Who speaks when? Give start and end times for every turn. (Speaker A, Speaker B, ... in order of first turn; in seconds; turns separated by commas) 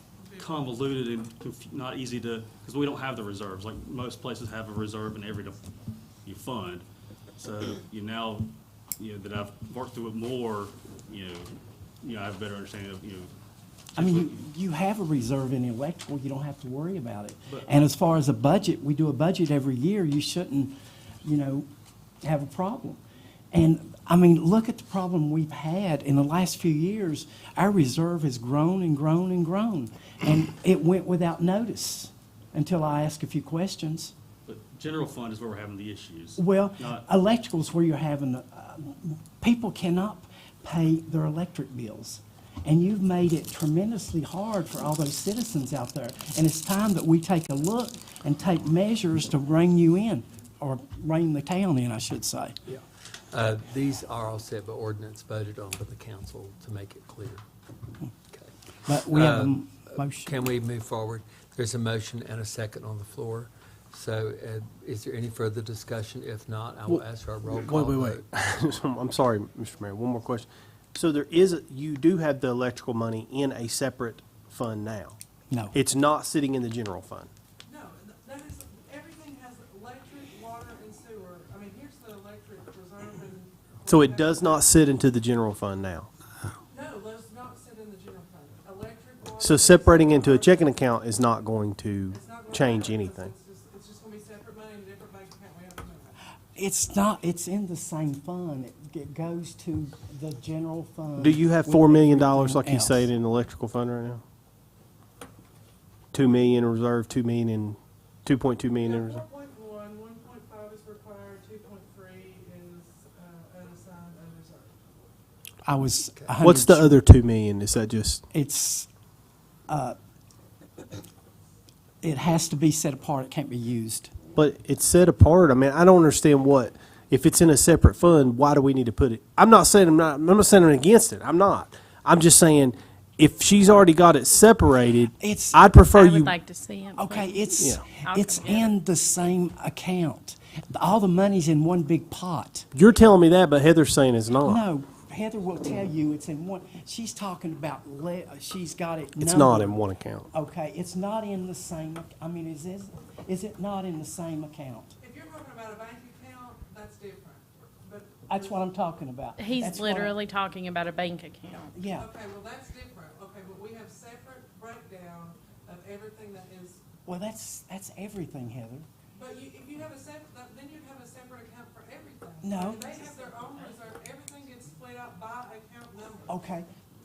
Speaker A: 0.3-5.6, Speaker A: 6.2-6.8, Speaker A: 7.4-13.3, Speaker A: 13.9-14.3, Speaker B: 13.9-21.7, Speaker B: 22.2-23.0, Speaker B: 23.5-34.1, Speaker A: 34.5-37.0, Speaker B: 36.4-52.5, Speaker C: 52.7-57.4, Speaker B: 58.9-60.3, Speaker C: 59.1-68.2, Speaker D: 67.4-75.2, Speaker B: 75.5-75.8, Speaker D: 75.7-77.3, Speaker E: 77.6-84.8, Speaker D: 83.8-86.1, Speaker E: 86.7-90.7, Speaker D: 89.4-93.3, Speaker E: 92.1-96.2, Speaker B: 96.5-103.1, Speaker D: 101.2-104.2, Speaker D: 106.1-109.2, Speaker E: 108.8-114.8, Speaker B: 115.6-117.0, Speaker D: 116.4-118.2, Speaker B: 118.3-118.9, Speaker B: 119.7-120.0, Speaker B: 122.0-124.1, Speaker D: 124.3-136.3, Speaker B: 135.2-135.6, Speaker F: 135.9-138.7, Speaker B: 137.0-142.7, Speaker D: 142.7-144.6, Speaker B: 144.4-154.9, Speaker D: 149.2-150.3, Speaker E: 155.0-158.6, Speaker B: 158.3-160.2, Speaker F: 159.4-161.8, Speaker B: 161.7-162.1, Speaker E: 161.9-166.8, Speaker B: 167.1-168.9, Speaker E: 169.1-176.4, Speaker B: 172.4-172.9, Speaker B: 176.3-176.7